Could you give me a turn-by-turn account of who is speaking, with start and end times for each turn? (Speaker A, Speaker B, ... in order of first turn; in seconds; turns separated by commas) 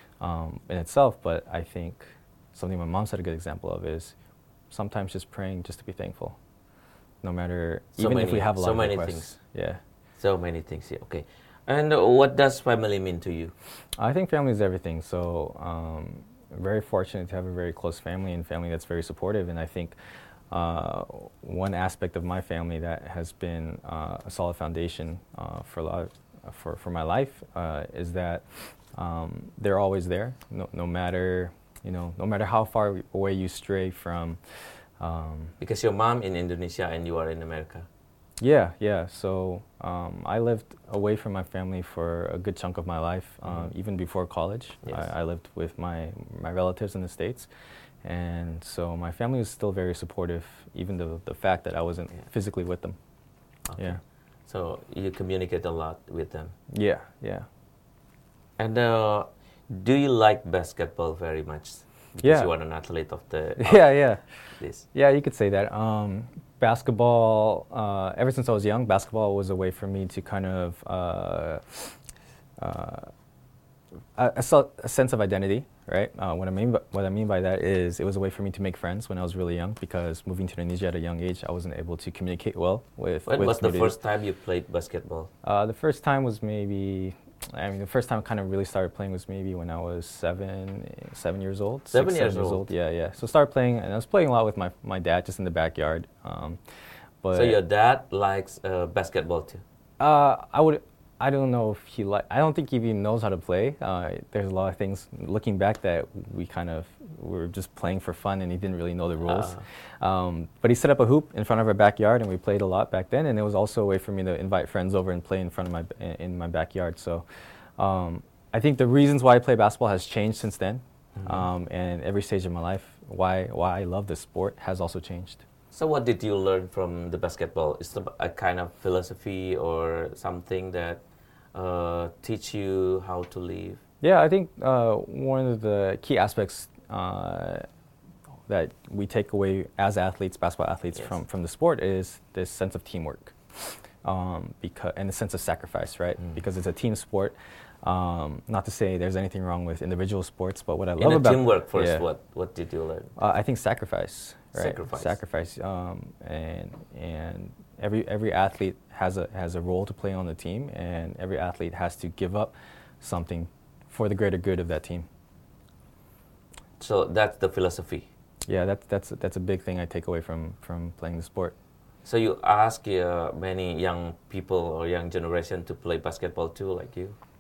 Speaker A: 0.2-4.2, Speaker A: 4.7-6.4, Speaker A: 7.2-9.8, Speaker B: 8.0-9.3, Speaker B: 10.2-13.5, Speaker A: 14.0-19.9, Speaker A: 20.5-34.4, Speaker A: 35.0-35.5, Speaker B: 35.6-37.9, Speaker A: 38.4-47.5, Speaker A: 48.0-53.0, Speaker B: 53.7-56.5, Speaker A: 56.7-57.5, Speaker B: 58.6-63.8, Speaker A: 62.2-62.5, Speaker A: 63.6-64.2, Speaker B: 64.6-64.9, Speaker A: 64.9-72.0, Speaker A: 72.6-73.1, Speaker A: 74.2-83.9, Speaker B: 83.3-85.3, Speaker A: 85.4-96.6, Speaker B: 91.9-92.7, Speaker A: 97.2-97.6, Speaker B: 97.3-99.6, Speaker A: 100.0-117.2, Speaker B: 109.2-109.6, Speaker A: 117.8-125.4, Speaker B: 121.2-121.5, Speaker B: 125.7-131.0, Speaker B: 131.5-133.8, Speaker A: 134.0-137.7, Speaker A: 138.5-152.1, Speaker B: 151.0-153.1, Speaker A: 153.2-165.1, Speaker B: 154.5-155.2, Speaker B: 166.8-168.1, Speaker A: 168.5-171.5, Speaker B: 172.0-177.2